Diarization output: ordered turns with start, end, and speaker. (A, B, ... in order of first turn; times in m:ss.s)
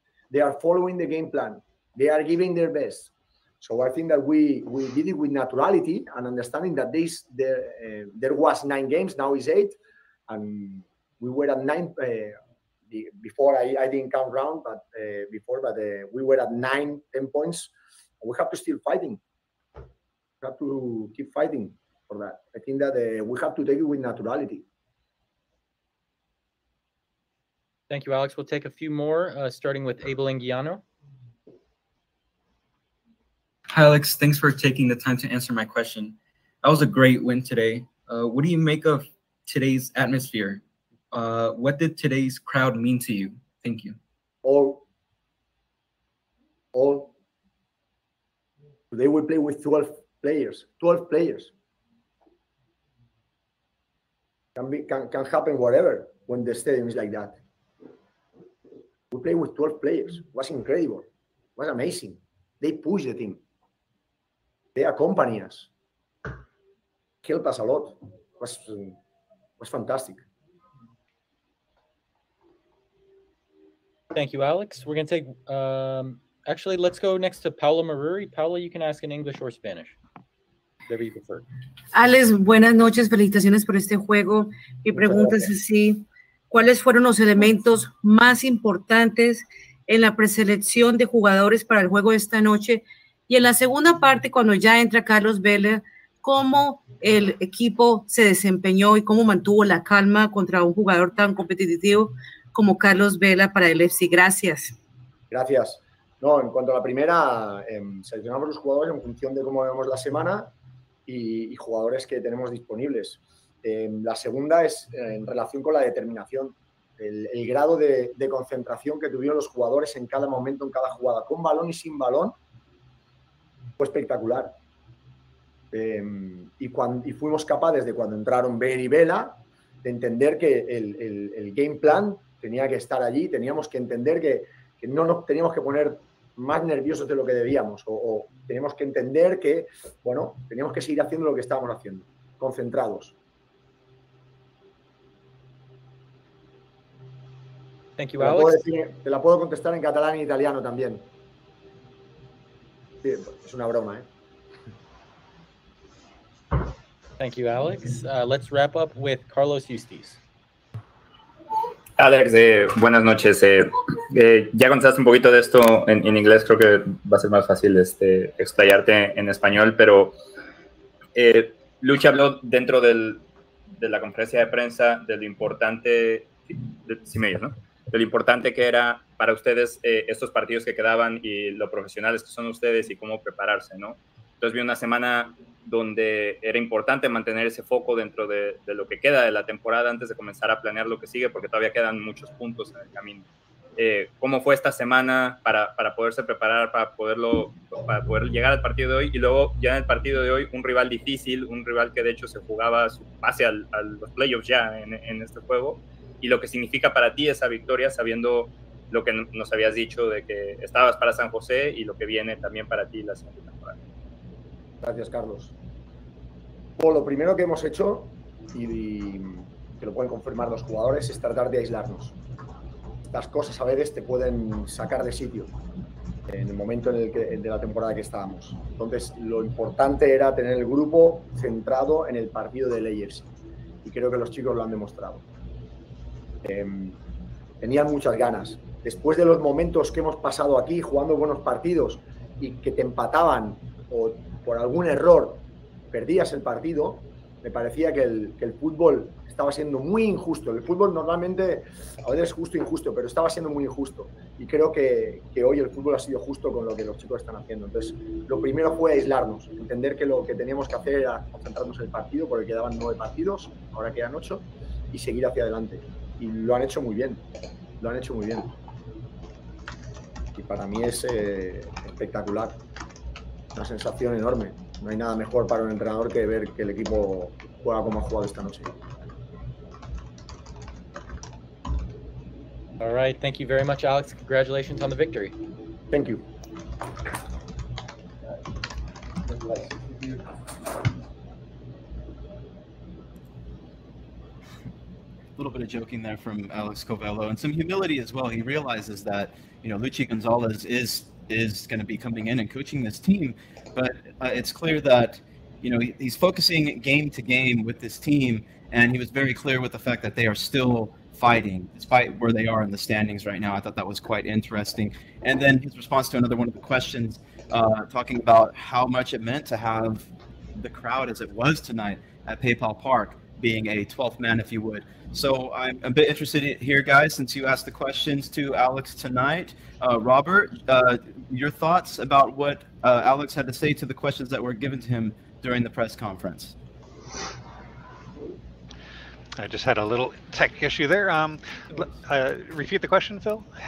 0:00.3-0:09.8 A
0:10.3-0:12.4 A
0:12.9-0:19.2 A
0:20.4-0:24.6 A
0:27.9-0:30.8 B
0:33.7-0:44.0 C
0:44.4-0:44.8 A
0:46.7-0:47.1 A
0:48.9-0:51.5 A
0:54.6-0:57.4 A
0:59.1-1:03.4 A
1:04.7-1:05.7 A
1:07.2-1:09.0 A
1:09.6-1:10.2 A
1:14.1-1:20.0 B
1:20.9-1:21.4 B
1:21.9-1:44.7 D
1:45.3-1:50.5 A
1:51.0-2:02.4 A
2:03.8-2:04.5 A
2:05.7-2:23.1 A
2:28.0-2:28.6 B
2:28.2-2:31.0 A
2:33.0-2:34.0 A
2:37.2-2:40.2 B
2:42.0-2:50.2 E
2:51.1-2:53.2 E
2:53.8-3:13.2 E
3:13.8-3:33.8 E
3:34.8-3:35.5 A
3:36.8-3:42.1 A
3:43.0-3:45.5 A
3:46.3-3:55.2 A
3:56.4-3:57.0 A
3:57.6-4:27.2 A
4:27.8-4:28.5 A
4:30.3-4:32.6 A
4:33.5-4:38.7 A
4:42.8-4:45.4 B
4:45.9-4:46.2 A
4:55.4-5:36.5 F
5:39.4-5:43.5 G